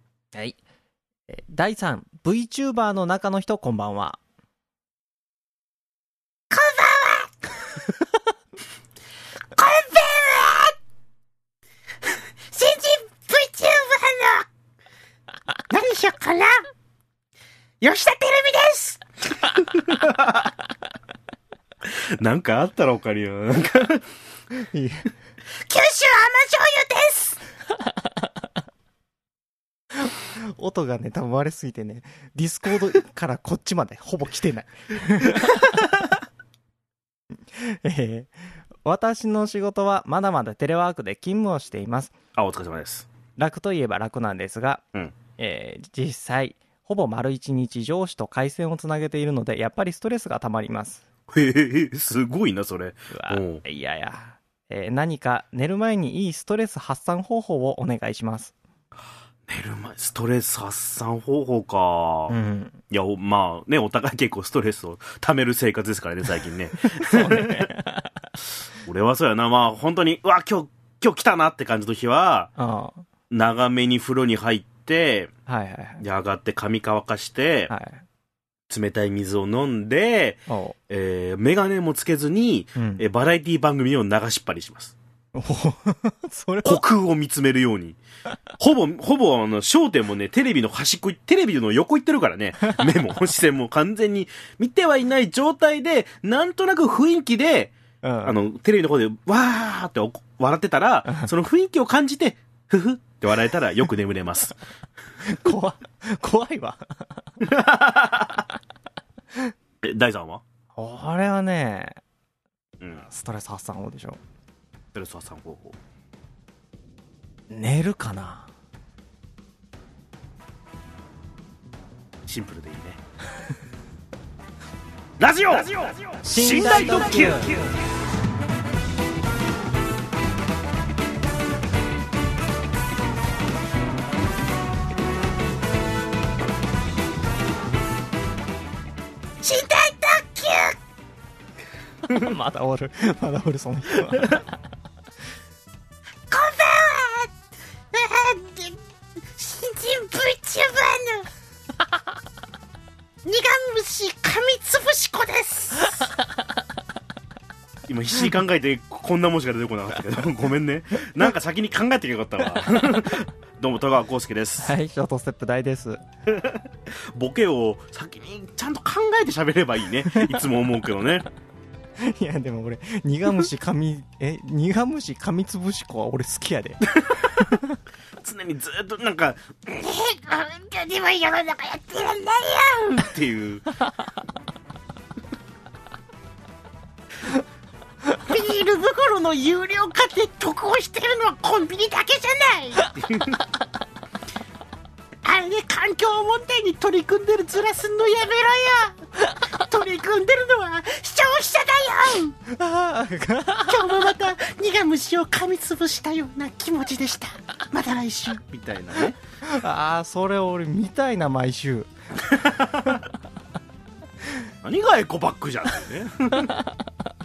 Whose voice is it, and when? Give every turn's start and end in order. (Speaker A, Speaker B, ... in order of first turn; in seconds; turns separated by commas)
Speaker A: 1.3-4.2, Speaker B: 6.5-7.4, Speaker B: 9.6-10.7, Speaker B: 12.5-14.4, Speaker B: 15.7-16.6, Speaker B: 17.8-19.0, Speaker C: 19.7-20.5, Speaker C: 21.8-24.0, Speaker A: 24.5-25.1, Speaker B: 25.6-27.4, Speaker A: 30.0-35.6, Speaker A: 37.5-38.3, Speaker A: 38.8-42.1, Speaker C: 42.3-43.1, Speaker A: 43.4-44.8, Speaker A: 45.4-51.0, Speaker C: 51.3-53.6, Speaker A: 53.1-58.5, Speaker C: 59.5-62.3, Speaker A: 62.3-62.8, Speaker C: 62.9-67.7, Speaker A: 66.9-68.2, Speaker C: 68.8-72.5, Speaker A: 72.6-73.0, Speaker C: 73.3-75.3, Speaker A: 75.5-76.0, Speaker C: 76.0-77.7, Speaker A: 77.7-78.0, Speaker C: 78.7-84.9, Speaker A: 80.5-80.8, Speaker A: 82.8-83.0, Speaker A: 85.3-86.8, Speaker C: 86.6-88.0, Speaker C: 88.6-104.6, Speaker A: 98.0-98.3, Speaker A: 105.2-107.4, Speaker C: 107.4-108.4, Speaker C: 109.8-110.4, Speaker A: 110.8-112.0, Speaker A: 113.0-114.2, Speaker C: 114.9-115.8, Speaker A: 117.5-118.5, Speaker C: 122.2-123.0, Speaker C: 125.2-127.7, Speaker A: 126.2-127.5, Speaker B: 126.9-127.6, Speaker B: 139.4-140.8, Speaker A: 142.1-144.4, Speaker B: 146.3-147.3, Speaker B: 147.9-148.8, Speaker B: 149.3-151.3, Speaker B: 153.2-155.9, Speaker C: 157.9-164.7, Speaker A: 164.6-166.0, Speaker C: 166.3-171.2, Speaker A: 172.0-177.7, Speaker C: 176.9-177.6, Speaker C: 178.2-179.7, Speaker B: 179.7-183.1, Speaker C: 183.0-183.7, Speaker B: 188.2-193.0, Speaker C: 193.0-193.4, Speaker B: 195.2-202.3, Speaker A: 202.5-203.8, Speaker B: 203.7-208.4, Speaker C: 208.3-209.2, Speaker A: 209.4-211.9, Speaker C: 212.2-213.0, Speaker C: 214.6-216.6